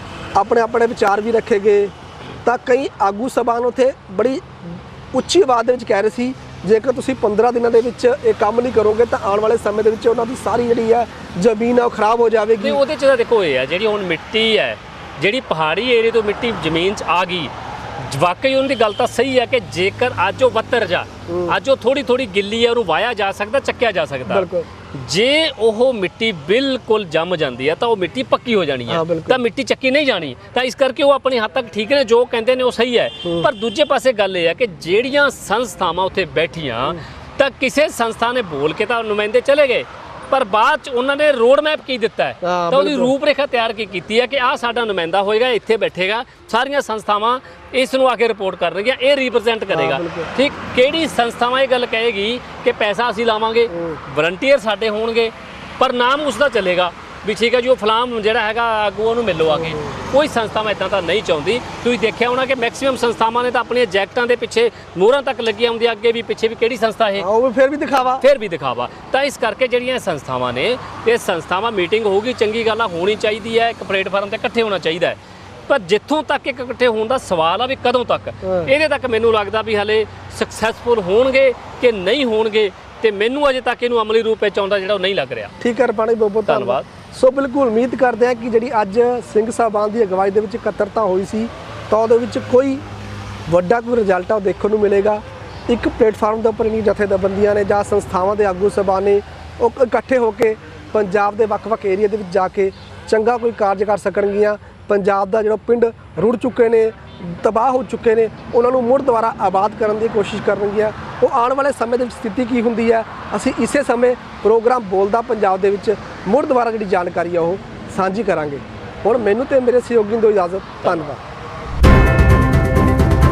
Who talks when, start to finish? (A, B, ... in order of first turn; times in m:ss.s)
0:00.3-0:12.8 A
0:12.6-1:07.3 B
0:21.3-0:21.6 A
0:24.3-0:24.7 A
0:28.9-0:29.4 A
0:42.4-0:43.1 A
0:49.7-0:50.3 A
0:53.7-0:54.0 A
0:59.5-0:59.9 A
1:07.2-1:08.2 A
1:08.2-1:25.6 B
1:18.4-1:18.7 A
1:25.6-1:32.8 A
1:26.5-1:26.9 B
1:33.5-2:01.2 A